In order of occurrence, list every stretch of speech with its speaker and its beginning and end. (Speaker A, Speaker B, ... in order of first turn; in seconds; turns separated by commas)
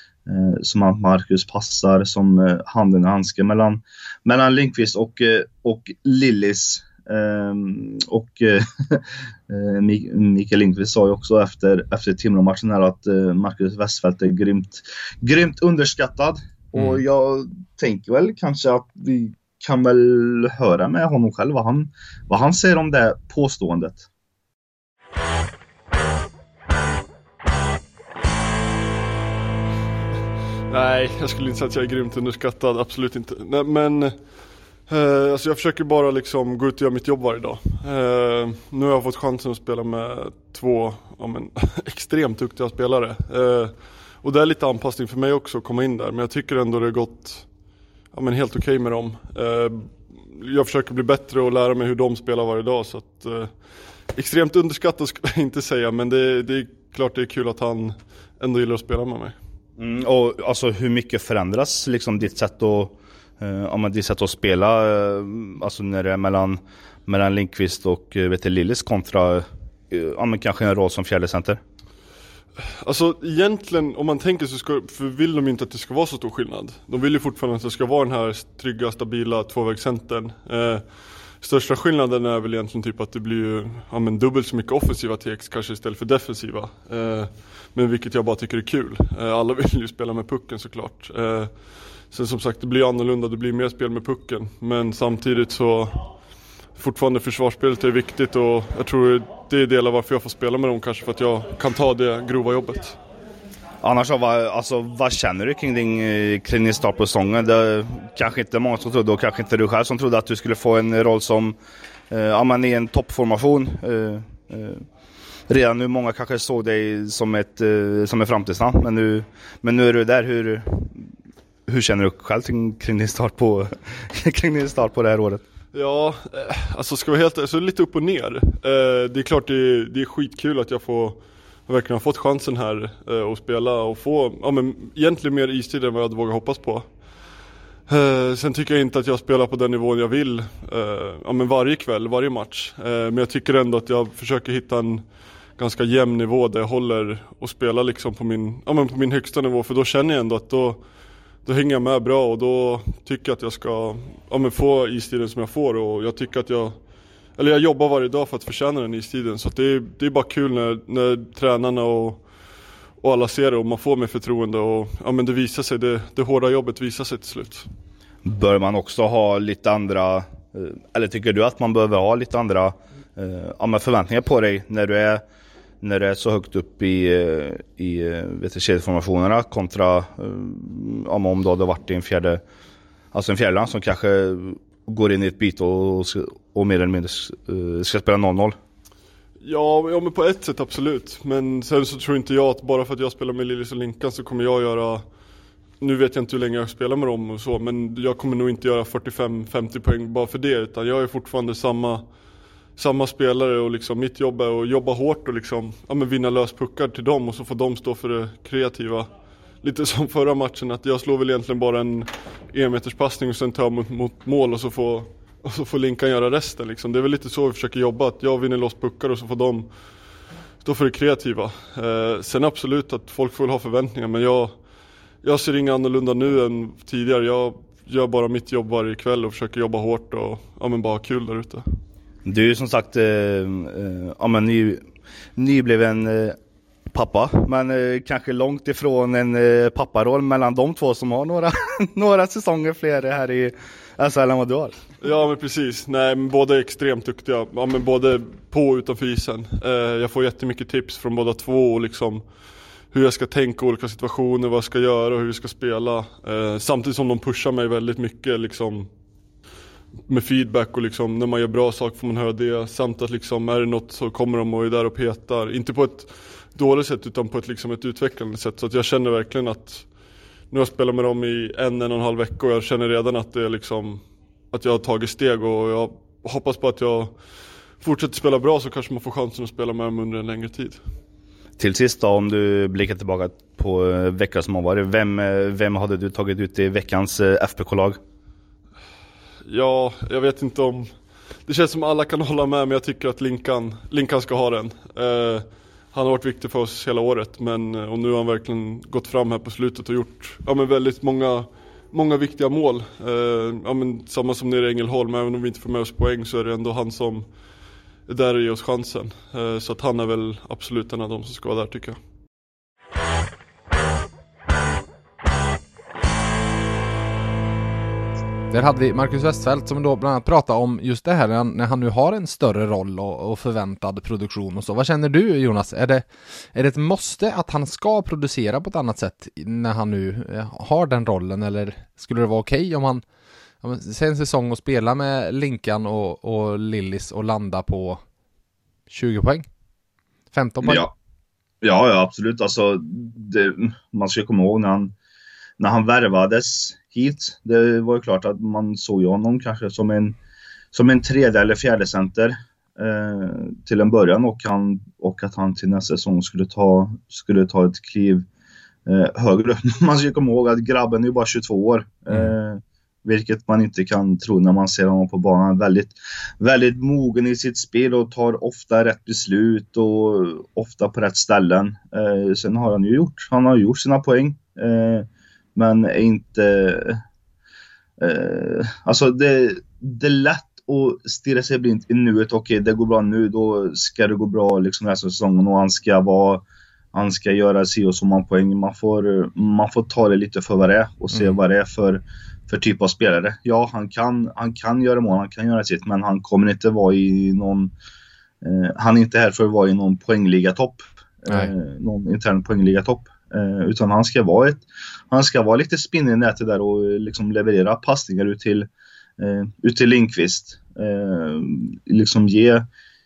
Speaker A: 0.3-24.1, Speaker B: 16.8-17.0, Speaker C: 30.7-47.6, Speaker C: 48.1-59.4, Speaker A: 59.8-71.6, Speaker C: 72.6-103.0, Speaker A: 103.8-111.6, Speaker A: 112.1-114.9, Speaker A: 115.5-121.1, Speaker A: 121.7-125.4, Speaker C: 125.7-137.3, Speaker C: 137.9-162.3, Speaker C: 163.0-167.7, Speaker A: 168.2-175.2, Speaker A: 175.8-182.4, Speaker A: 183.1-188.6, Speaker C: 189.4-195.1, Speaker C: 195.8-202.2, Speaker C: 202.8-224.7, Speaker C: 225.2-231.6, Speaker A: 232.2-234.8, Speaker A: 235.4-236.4, Speaker A: 236.9-244.8, Speaker C: 245.0-258.9, Speaker C: 260.1-280.8, Speaker A: 281.6-288.0, Speaker C: 289.4-312.0, Speaker B: 318.5-333.0, Speaker B: 333.6-338.0, Speaker B: 338.9-339.5, Speaker B: 340.3-340.9, Speaker A: 340.6-340.9, Speaker A: 341.6-344.9, Speaker A: 345.6-350.2, Speaker A: 350.7-358.3, Speaker A: 358.9-377.0, Speaker A: 378.0-397.7, Speaker B: 391.1-391.4, Speaker A: 398.4-412.7, Speaker B: 401.3-401.5